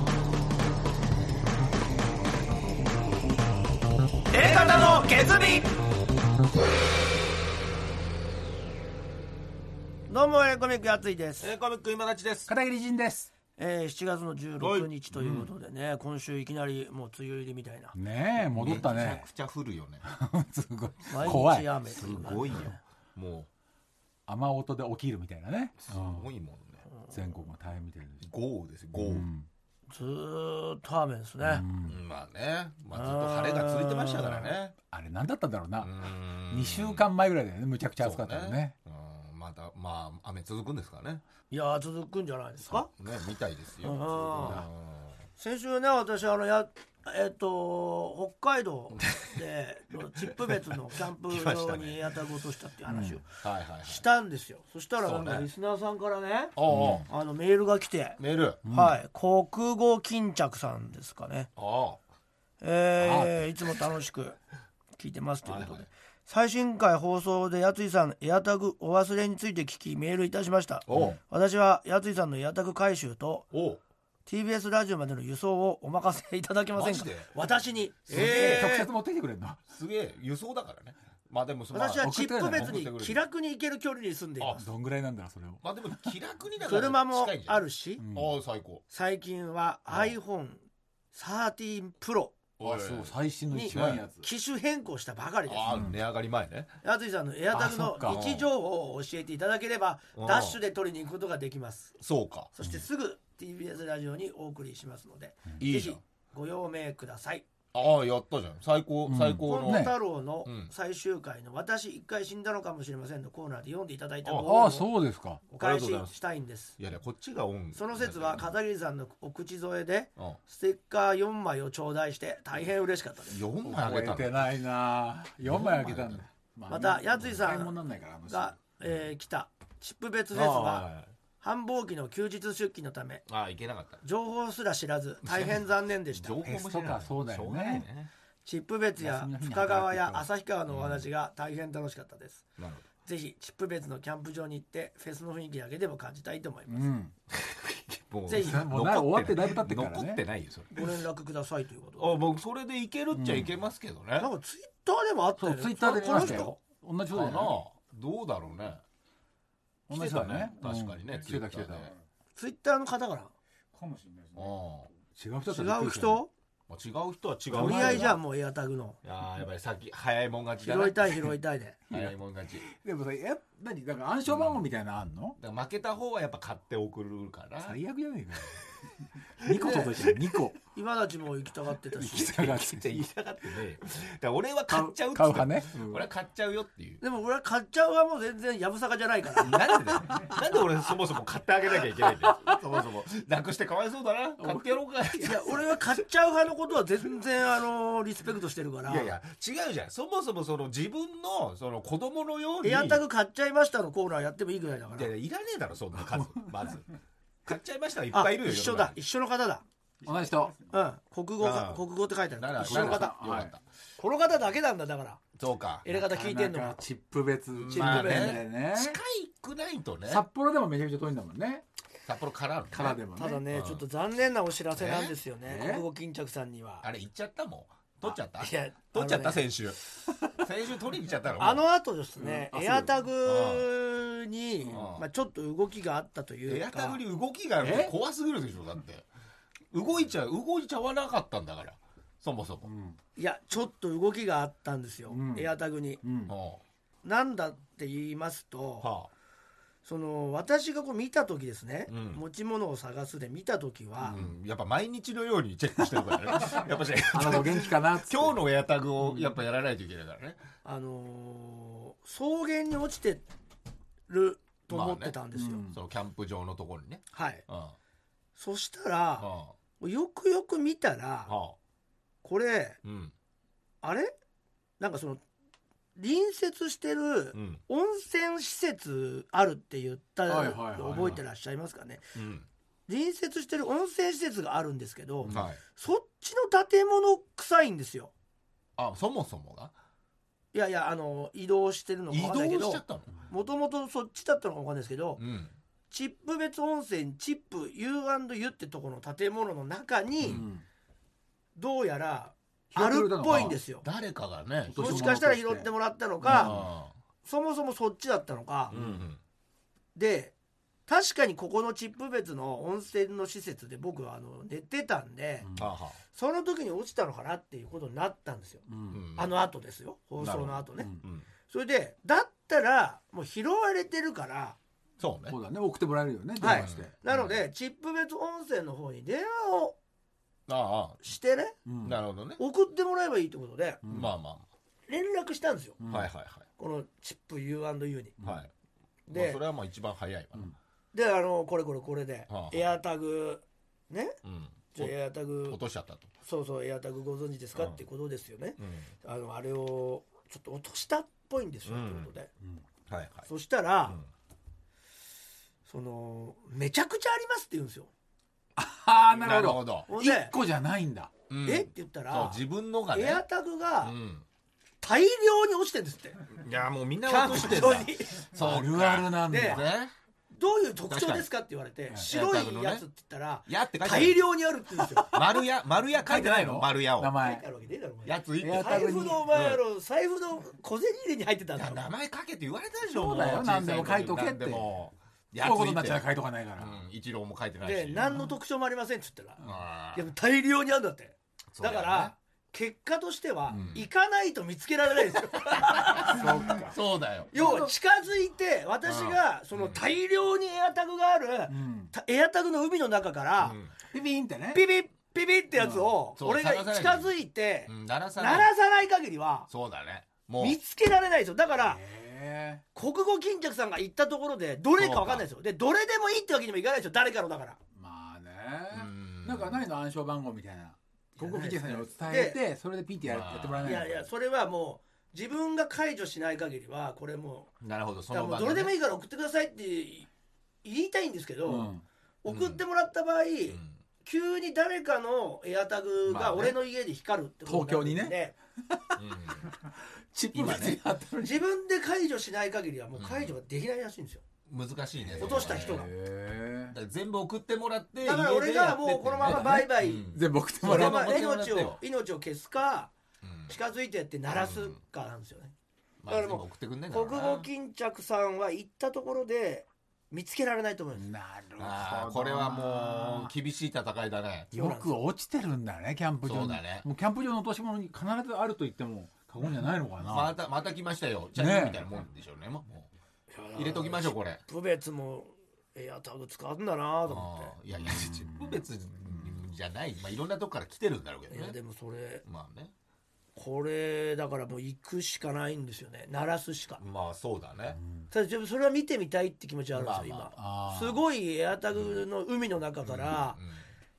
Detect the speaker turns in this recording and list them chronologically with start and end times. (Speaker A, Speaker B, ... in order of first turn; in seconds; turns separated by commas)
Speaker A: 4.3-5.7, Speaker A: 10.1-11.5, Speaker B: 11.4-12.5, Speaker C: 12.5-13.3, Speaker A: 13.6-17.9, Speaker B: 14.6-14.9, Speaker C: 15.1-15.5, Speaker C: 17.9-19.2, Speaker B: 18.5-20.0, Speaker C: 20.0-21.7, Speaker A: 21.1-22.8, Speaker B: 21.2-23.5, Speaker C: 24.3-26.3, Speaker B: 25.8-26.8, Speaker C: 27.1-28.2, Speaker B: 28.2-29.3, Speaker C: 29.0-29.5, Speaker A: 29.9-31.6, Speaker C: 31.4-32.0, Speaker B: 31.8-34.7, Speaker A: 32.9-34.4, Speaker C: 34.8-38.7, Speaker B: 35.8-37.1, Speaker B: 38.0-41.2, Speaker A: 41.5-42.9, Speaker B: 42.6-45.2, Speaker A: 43.8-44.6, Speaker A: 45.4-53.2, Speaker B: 49.0-49.3, Speaker B: 51.2-52.0, Speaker C: 52.9-53.2, Speaker B: 53.4-54.0, Speaker A: 53.8-56.5, Speaker B: 55.0-55.5, Speaker B: 56.5-57.1, Speaker C: 56.7-57.0, Speaker A: 57.1-61.5, Speaker B: 58.2-58.6, Speaker C: 58.6-59.0, Speaker B: 61.5-62.0, Speaker A: 62.6-64.4, Speaker C: 63.0-63.5, Speaker A: 65.0-73.5, Speaker B: 65.4-65.9, Speaker B: 70.9-71.2, Speaker B: 73.5-73.8, Speaker A: 74.2-78.9, Speaker B: 76.7-77.3, Speaker B: 78.0-78.7, Speaker C: 78.1-79.6, Speaker B: 79.7-83.2, Speaker A: 81.7-84.6, Speaker C: 82.0-82.8, Speaker B: 84.4-84.6, Speaker C: 84.6-86.1, Speaker B: 85.6-88.8, Speaker A: 86.6-88.0, Speaker C: 88.0-88.3, Speaker A: 88.9-90.6, Speaker B: 89.9-90.1, Speaker A: 91.1-92.4, Speaker B: 92.6-93.1, Speaker C: 92.6-94.3, Speaker A: 93.5-95.7, Speaker B: 93.7-94.0, Speaker B: 95.5-96.8, Speaker C: 95.7-96.0, Speaker A: 96.8-101.9, Speaker C: 97.5-98.2, Speaker B: 98.0-98.5, Speaker B: 100.2-100.6, Speaker B: 102.0-102.5, Speaker A: 102.5-107.5, Speaker B: 105.6-106.0, Speaker B: 107.7-109.9, Speaker C: 109.0-110.0, Speaker A: 109.4-114.9, Speaker B: 110.4-110.7, Speaker B: 114.2-114.5, Speaker C: 114.4-115.4, Speaker A: 115.5-116.8, Speaker B: 115.6-116.1, Speaker B: 116.8-118.5, Speaker A: 117.7-123.4, Speaker B: 123.3-124.4, Speaker C: 123.6-128.6, Speaker B: 125.4-126.2, Speaker A: 126.7-127.8, Speaker A: 128.3-130.8, Speaker B: 130.3-131.1, Speaker A: 131.4-133.2, Speaker B: 133.3-134.0, Speaker A: 134.0-136.5, Speaker B: 135.2-135.6, Speaker B: 136.1-138.1, Speaker C: 136.4-137.8, Speaker A: 138.4-142.4, Speaker C: 139.0-140.3, Speaker B: 140.7-141.1, Speaker B: 142.6-142.8, Speaker A: 143.0-146.9, Speaker C: 146.7-147.1, Speaker B: 147.3-151.0, Speaker A: 148.3-148.6, Speaker C: 148.3-150.2, Speaker A: 150.7-152.2, Speaker B: 152.0-154.3, Speaker C: 153.1-153.5, Speaker A: 154.2-156.5, Speaker C: 155.4-157.6, Speaker B: 156.1-156.4, Speaker B: 157.1-158.8, Speaker C: 159.9-161.9, Speaker B: 159.9-161.9, Speaker A: 162.3-163.3, Speaker B: 164.3-164.9, Speaker C: 165.1-166.2, Speaker A: 165.5-166.3, Speaker B: 166.7-168.2, Speaker C: 167.5-168.2, Speaker A: 167.5-169.0, Speaker B: 169.0-171.3, Speaker A: 170.6-171.8, Speaker B: 171.9-172.6, Speaker C: 171.9-175.4, Speaker B: 174.3-174.6, Speaker B: 175.4-177.8, Speaker C: 177.6-180.6, Speaker A: 179.5-180.0, Speaker A: 180.7-182.3, Speaker B: 181.9-187.0, Speaker C: 182.0-183.1, Speaker C: 184.7-186.1, Speaker A: 187.0-189.6, Speaker B: 189.4-195.6, Speaker C: 192.0-192.6, Speaker C: 194.4-195.6, Speaker A: 195.2-199.1, Speaker B: 198.8-203.0, Speaker A: 202.6-205.1, Speaker B: 204.9-206.8, Speaker C: 206.1-206.5, Speaker B: 207.4-209.0, Speaker A: 208.1-209.6, Speaker C: 210.0-210.7, Speaker A: 210.7-213.2, Speaker B: 211.4-211.8, Speaker B: 212.3-213.6, Speaker C: 212.6-213.5, Speaker A: 214.0-215.2, Speaker B: 215.3-215.9, Speaker A: 215.8-216.8, Speaker C: 215.9-219.0, Speaker B: 217.5-220.2, Speaker A: 217.7-218.4, Speaker C: 220.1-221.6, Speaker B: 222.1-223.0, Speaker C: 222.7-223.4, Speaker A: 223.1-226.8, Speaker B: 223.5-223.8, Speaker B: 224.7-225.1, Speaker C: 225.4-225.8, Speaker B: 226.8-229.8, Speaker A: 228.1-229.5, Speaker B: 230.3-231.6, Speaker A: 231.4-237.0, Speaker C: 232.2-233.0, Speaker B: 233.2-233.7, Speaker B: 234.7-235.1, Speaker B: 236.5-239.1, Speaker C: 237.6-237.9, Speaker B: 239.7-242.7, Speaker C: 242.6-243.0, Speaker A: 243.2-246.0, Speaker C: 245.1-245.5, Speaker C: 246.0-246.3, Speaker B: 246.2-246.6, Speaker A: 247.0-248.9, Speaker B: 248.8-249.1, Speaker A: 249.8-254.2, Speaker B: 251.9-252.2, Speaker C: 254.0-254.3, Speaker B: 254.1-260.4, Speaker C: 256.3-258.4, Speaker A: 260.6-263.2, Speaker A: 264.1-265.6, Speaker B: 264.7-265.2, Speaker C: 265.3-265.8, Speaker B: 265.7-267.8, Speaker A: 267.1-267.4, Speaker A: 268.4-269.3, Speaker B: 269.2-269.5, Speaker A: 269.8-271.3, Speaker B: 271.3-271.6, Speaker A: 272.2-272.8, Speaker B: 272.8-273.1, Speaker A: 273.8-274.1, Speaker A: 274.8-275.2, Speaker A: 275.9-282.1, Speaker B: 277.3-277.6, Speaker C: 280.3-281.2, Speaker B: 282.1-282.5, Speaker A: 282.9-288.1, Speaker B: 285.3-285.6, Speaker B: 288.8-289.7, Speaker A: 290.5-295.2, Speaker B: 292.1-293.1, Speaker B: 295.2-295.5, Speaker A: 295.9-300.4, Speaker B: 300.2-300.5, Speaker C: 300.2-300.6, Speaker A: 301.6-303.8, Speaker C: 302.7-303.6, Speaker B: 303.3-305.2, Speaker C: 304.7-305.7, Speaker A: 304.8-306.6, Speaker C: 306.2-306.6, Speaker B: 306.3-306.9, Speaker A: 307.2-308.8, Speaker B: 308.7-309.2, Speaker C: 308.7-309.0, Speaker A: 309.9-310.3, Speaker A: 310.9-315.5, Speaker C: 315.4-315.7, Speaker B: 315.6-316.0, Speaker A: 316.1-318.6, Speaker C: 318.7-319.0, Speaker B: 318.9-319.4, Speaker A: 319.1-320.9, Speaker B: 320.2-321.3, Speaker A: 321.5-324.6, Speaker B: 325.0-325.4, Speaker C: 325.3-326.9, Speaker A: 326.4-329.8, Speaker B: 326.4-327.4, Speaker B: 330.5-331.0, Speaker A: 331.0-331.6, Speaker C: 331.6-332.0, Speaker B: 331.8-332.4, Speaker A: 332.4-333.8, Speaker C: 333.8-334.1, Speaker B: 333.9-334.4, Speaker A: 334.9-335.8, Speaker C: 335.8-336.1, Speaker B: 335.9-336.4, Speaker A: 336.6-338.1, Speaker B: 338.2-338.5, Speaker A: 339.1-339.4, Speaker B: 339.1-340.5, Speaker A: 340.9-344.2, Speaker B: 342.3-342.7, Speaker B: 344.2-344.9, Speaker A: 344.7-345.6, Speaker B: 345.5-346.1, Speaker A: 346.2-352.3, Speaker B: 347.5-347.8, Speaker B: 348.6-348.9, Speaker B: 351.6-352.1, Speaker B: 352.9-353.3, Speaker A: 353.3-354.0, Speaker A: 355.6-357.9, Speaker C: 358.6-361.1, Speaker B: 359.1-359.9, Speaker A: 359.9-360.3, Speaker B: 361.3-363.2, Speaker A: 361.4-362.4, Speaker A: 362.9-363.9, Speaker B: 363.8-364.2, Speaker A: 364.8-366.2, Speaker B: 366.3-369.9, Speaker A: 367.1-368.3, Speaker C: 368.3-369.7, Speaker A: 369.3-369.6, Speaker A: 370.3-375.2, Speaker B: 370.9-371.2, Speaker B: 371.9-372.9, Speaker B: 373.5-374.2, Speaker C: 374.8-375.4, Speaker B: 375.1-377.2, Speaker C: 376.0-377.4, Speaker A: 377.2-381.9, Speaker B: 378.0-379.6, Speaker C: 378.4-379.3, Speaker B: 381.5-386.1, Speaker C: 382.9-384.6, Speaker C: 385.4-386.8, Speaker B: 386.6-388.0, Speaker A: 387.6-396.6, Speaker B: 389.4-390.0, Speaker B: 391.5-392.1, Speaker B: 393.5-393.9, Speaker B: 395.4-397.3, Speaker C: 396.0-396.8, Speaker A: 397.3-403.6, Speaker C: 397.3-397.7, Speaker B: 398.8-399.8, Speaker C: 401.5-401.9, Speaker B: 403.4-403.7, Speaker C: 403.9-404.6, Speaker A: 404.5-409.5, Speaker C: 405.6-405.9, Speaker B: 406.1-407.1, Speaker B: 407.7-408.5, Speaker B: 409.5-410.6, Speaker A: 410.4-411.8, Speaker C: 411.6-412.6, Speaker A: 412.7-417.6, Speaker B: 414.8-415.2, Speaker C: 417.7-424.0, Speaker B: 418.7-419.6, Speaker A: 421.2-422.4, Speaker B: 423.0-423.8, Speaker A: 423.6-427.5, Speaker B: 427.6-428.8, Speaker A: 428.1-430.1, Speaker A: 430.6-431.7, Speaker C: 431.4-431.8, Speaker A: 432.2-438.3, Speaker B: 432.3-432.6, Speaker B: 433.5-433.8, Speaker B: 436.1-436.6, Speaker C: 437.4-438.1, Speaker C: 438.7-441.4, Speaker B: 438.9-439.5, Speaker B: 440.3-440.8, Speaker A: 441.2-444.2, Speaker B: 442.9-443.3, Speaker B: 444.5-445.9, Speaker C: 445.0-446.7, Speaker A: 445.2-445.9, Speaker B: 446.7-451.8, Speaker A: 448.0-450.1, Speaker C: 449.2-451.3, Speaker A: 450.6-452.9, Speaker B: 453.2-453.5, Speaker A: 453.5-455.5, Speaker B: 454.3-454.8, Speaker B: 456.0-457.5, Speaker A: 456.1-461.1, Speaker C: 460.9-463.3, Speaker B: 461.6-464.5, Speaker C: 464.5-470.4, Speaker A: 464.5-465.0, Speaker B: 466.2-466.9, Speaker B: 470.0-472.9, Speaker C: 471.4-471.8, Speaker A: 473.3-477.5, Speaker B: 473.5-474.4, Speaker B: 477.1-481.6, Speaker C: 477.7-479.4, Speaker A: 481.3-482.2, Speaker B: 482.2-482.7, Speaker A: 483.4-486.8, Speaker B: 486.8-487.8, Speaker A: 488.1-493.4, Speaker B: 489.7-490.3, Speaker C: 490.4-491.0, Speaker B: 491.7-492.1, Speaker B: 492.8-493.7